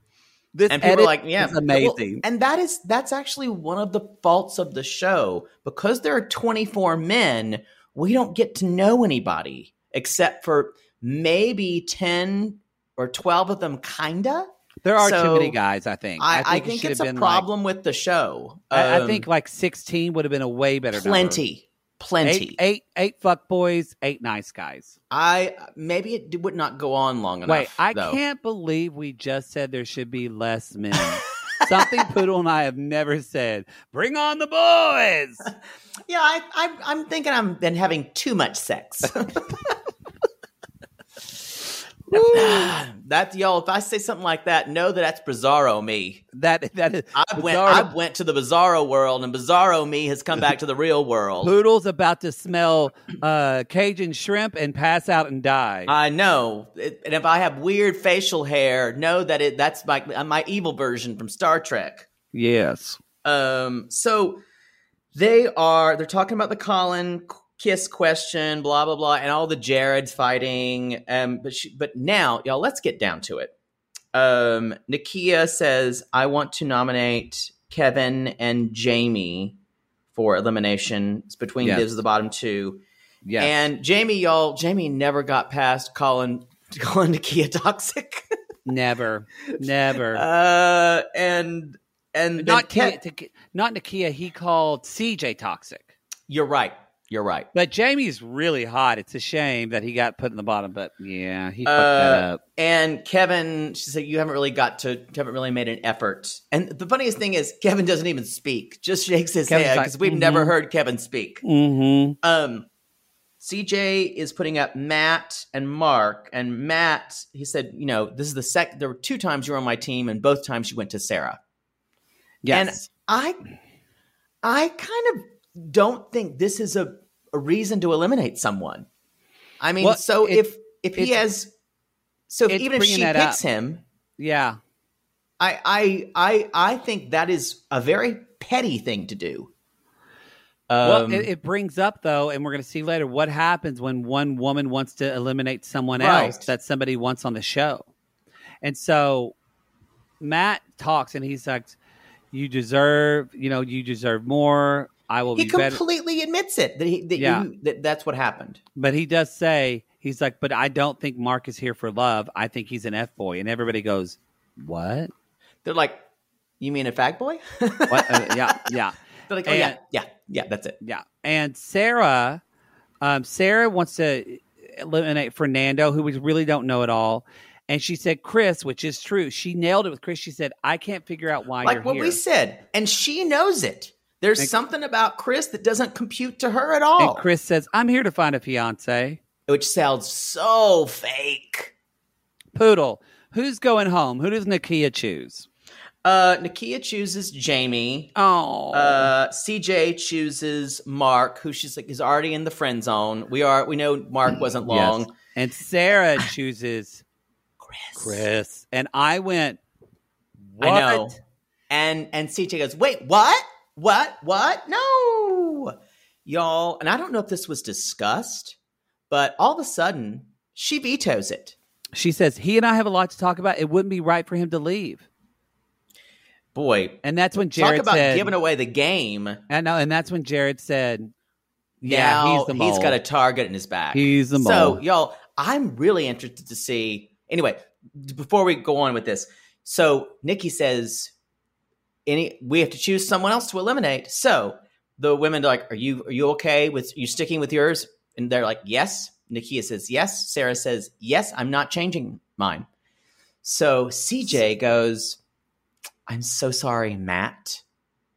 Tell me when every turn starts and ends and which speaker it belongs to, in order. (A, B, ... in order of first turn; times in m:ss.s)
0:00.5-0:02.2 A
0:00.7-0:14.5 B
0:14.8-0:17.4 A
0:15.0-0:15.6 B
0:16.2-0:19.2 B
0:18.7-0:21.4 A
0:20.9-0:22.6 B
0:22.2-0:24.9 A
0:25.1-0:28.2 B
0:27.5-0:35.5 A
0:36.1-0:39.8 B
0:42.1-0:42.8 A
0:42.1-0:46.2 B
0:46.3-0:47.9 A
0:47.1-0:51.5 B
0:51.4-0:55.9 A
0:55.9-1:02.1 B
1:02.3-1:03.0 A
1:03.2-1:04.4 B
1:05.1-1:13.5 B
1:14.1-1:19.6 B
1:20.1-1:22.8 B
1:23.2-1:23.5 A
1:23.4-1:28.2 B
1:28.6-1:30.2 A
1:30.1-1:33.0 B
1:32.4-1:35.9 A
1:36.3-1:37.5 B
1:37.5-1:42.4 A
1:41.6-1:51.4 B
1:49.5-1:50.5 A
1:51.4-1:52.2 A
1:52.2-1:52.7 B
1:53.4-2:01.4 B
2:02.4-2:02.8 A
2:02.5-2:03.4 B
2:04.4-2:08.8 B
2:09.6-2:11.5 B
2:09.8-2:10.4 A
2:12.3-2:13.8 B
2:12.5-2:13.4 A
2:14.2-2:14.6 A
2:15.4-2:19.5 B
2:20.7-2:21.3 B
2:20.8-2:27.9 A
2:26.0-2:26.5 B
2:28.6-2:29.3 A
2:30.2-2:31.8 A
2:32.3-2:35.8 A
2:35.4-2:38.6 B
2:37.2-2:37.4 A
2:38.8-2:45.1 A
2:45.6-2:46.0 B
2:46.6-2:48.7 B
2:47.9-2:49.8 A
2:49.3-2:50.8 B
2:50.8-2:52.4 A
2:53.0-3:02.2 A
3:01.6-3:07.2 B
3:07.0-3:09.2 A
3:09.5-3:11.7 B
3:12.5-3:15.5 A
3:16.0-3:18.1 B
3:18.2-3:19.1 A
3:18.7-3:25.1 B
3:24.6-3:27.0 A
3:27.6-3:28.2 B
3:28.0-3:29.6 A
3:30.5-3:31.1 A
3:30.6-3:31.2 B
3:31.7-3:35.7 B
3:36.2-3:38.6 B
3:39.1-3:41.5 B
3:41.9-3:45.0 A
3:46.5-3:47.0 B
3:47.0-3:48.3 A
3:47.5-3:49.4 B
3:49.5-3:51.1 A
3:51.8-3:53.0 A
3:51.8-4:01.1 B
3:53.9-3:54.8 A
4:02.0-4:12.7 B
4:13.4-4:15.2 B
4:16.1-4:17.6 B